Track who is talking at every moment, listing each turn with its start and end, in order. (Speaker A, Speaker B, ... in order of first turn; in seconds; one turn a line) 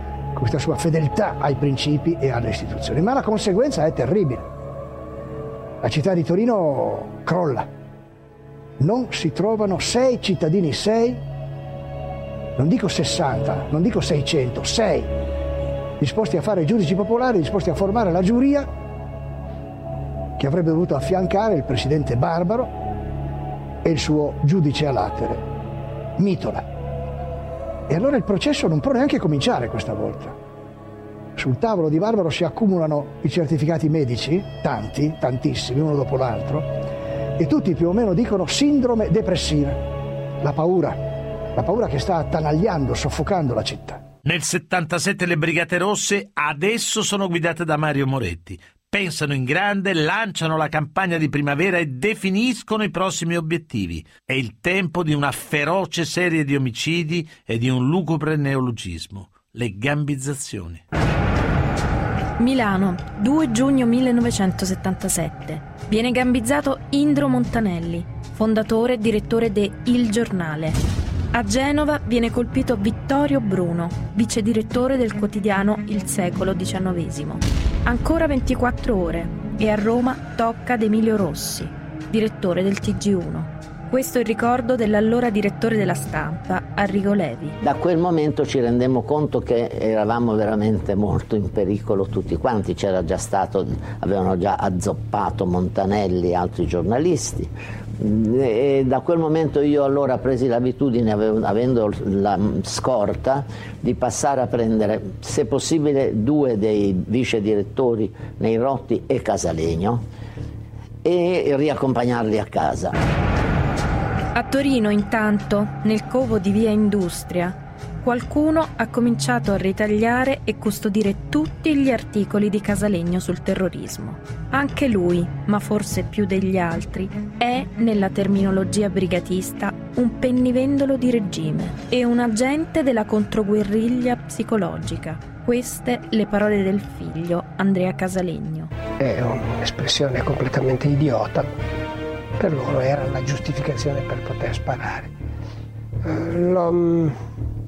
Speaker A: 0.3-4.5
Speaker A: 5.8-7.7
Speaker A: 8.8-11.2
Speaker A: 12.6-15.2
Speaker A: 16.0-18.7
Speaker A: 20.4-22.8
Speaker A: 23.8-25.5
Speaker A: 26.2-26.7
Speaker A: 27.9-30.4
Speaker A: 31.4-36.7
Speaker A: 37.4-39.8
Speaker A: 40.4-44.0
Speaker B: 44.2-60.8
Speaker C: 62.4-70.8
Speaker C: 71.3-87.6
Speaker D: 87.6-110.0
Speaker D: 111.0-113.0
Speaker C: 114.3-138.7
Speaker E: 139.0-141.5
Speaker E: 142.4-145.1
Speaker E: 146.0-147.2